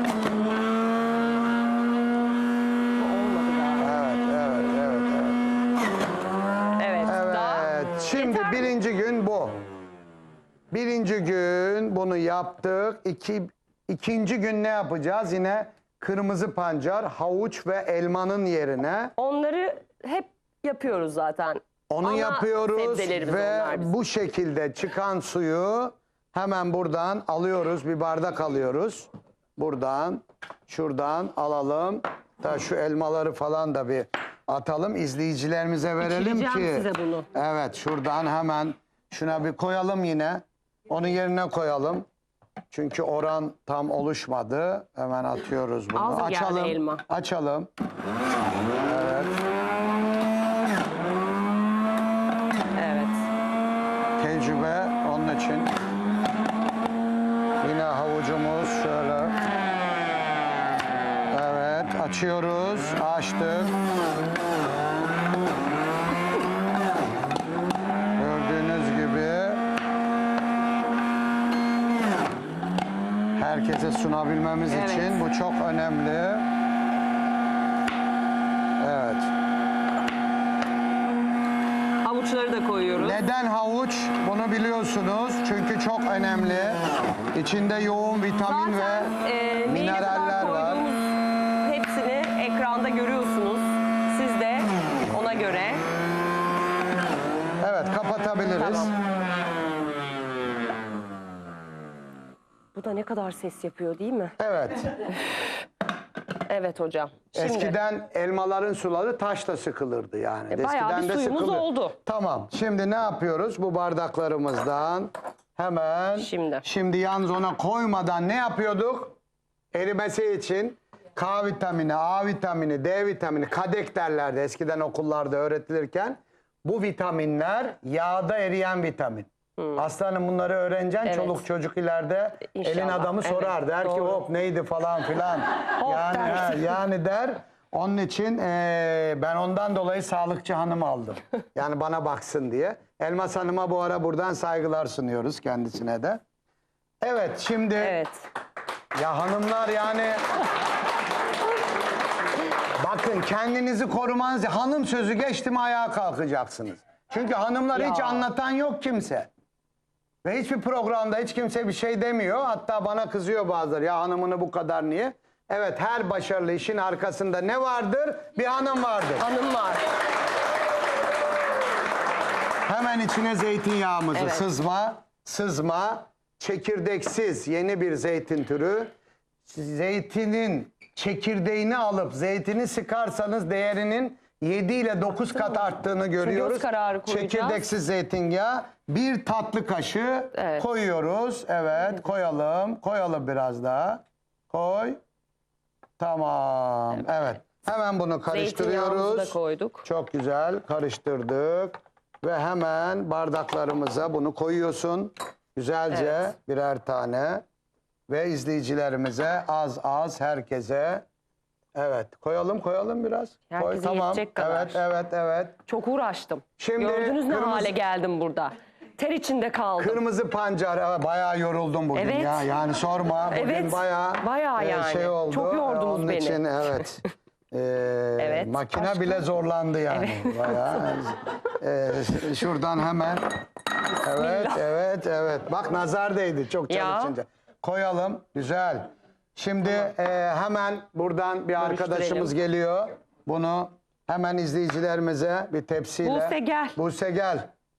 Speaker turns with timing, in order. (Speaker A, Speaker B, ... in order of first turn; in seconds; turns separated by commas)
Speaker A: 3.0-3.9, Speaker B: 3.8-5.5, Speaker A: 6.8-8.7, Speaker B: 7.0-9.6, Speaker B: 10.7-19.1, Speaker A: 19.2-23.9, Speaker B: 21.9-42.0, Speaker A: 36.0-37.3, Speaker B: 42.7-47.7, Speaker A: 45.9-47.0, Speaker B: 48.8-49.4, Speaker A: 52.8-53.2, Speaker B: 54.2-55.7, Speaker B: 57.6-59.4, Speaker B: 61.3-63.7, Speaker B: 68.2-69.6, Speaker B: 73.3-76.5, Speaker A: 74.7-75.2, Speaker B: 78.8-79.3, Speaker A: 82.0-83.2, Speaker B: 83.0-89.1, Speaker A: 88.4-95.8, Speaker B: 89.6-90.8, Speaker B: 97.6-98.9, Speaker A: 98.6-98.9, Speaker A: 102.7-104.3, Speaker B: 104.4-104.9, Speaker A: 106.5-107.8, Speaker B: 107.3-119.2, Speaker A: 110.5-112.0, Speaker A: 116.2-116.6, Speaker B: 119.7-146.2, Speaker A: 131.0-131.4, Speaker A: 132.5-134.2, Speaker A: 135.8-136.8, Speaker B: 147.0-148.0, Speaker A: 147.8-148.2, Speaker B: 148.9-150.2, Speaker B: 152.8-159.3, Speaker A: 157.7-158.3, Speaker B: 160.2-169.3, Speaker A: 169.2-169.8, Speaker B: 172.7-178.9, Speaker A: 174.1-174.5, Speaker B: 179.4-195.0, Speaker A: 185.4-185.6, Speaker A: 186.2-187.6, Speaker A: 190.3-190.7, Speaker B: 196.0-207.4, Speaker A: 198.3-199.8, Speaker A: 205.9-206.3, Speaker B: 208.1-211.0, Speaker B: 211.7-215.6, Speaker A: 213.5-214.8, Speaker A: 215.7-220.0, Speaker B: 216.6-217.7, Speaker B: 219.8-233.2, Speaker A: 221.9-222.5, Speaker A: 223.3-226.8, Speaker A: 228.2-229.2, Speaker A: 229.9-230.8, Speaker B: 234.0-247.5, Speaker A: 234.1-234.6, Speaker A: 236.7-237.1, Speaker A: 241.6-242.3, Speaker A: 246.0-246.8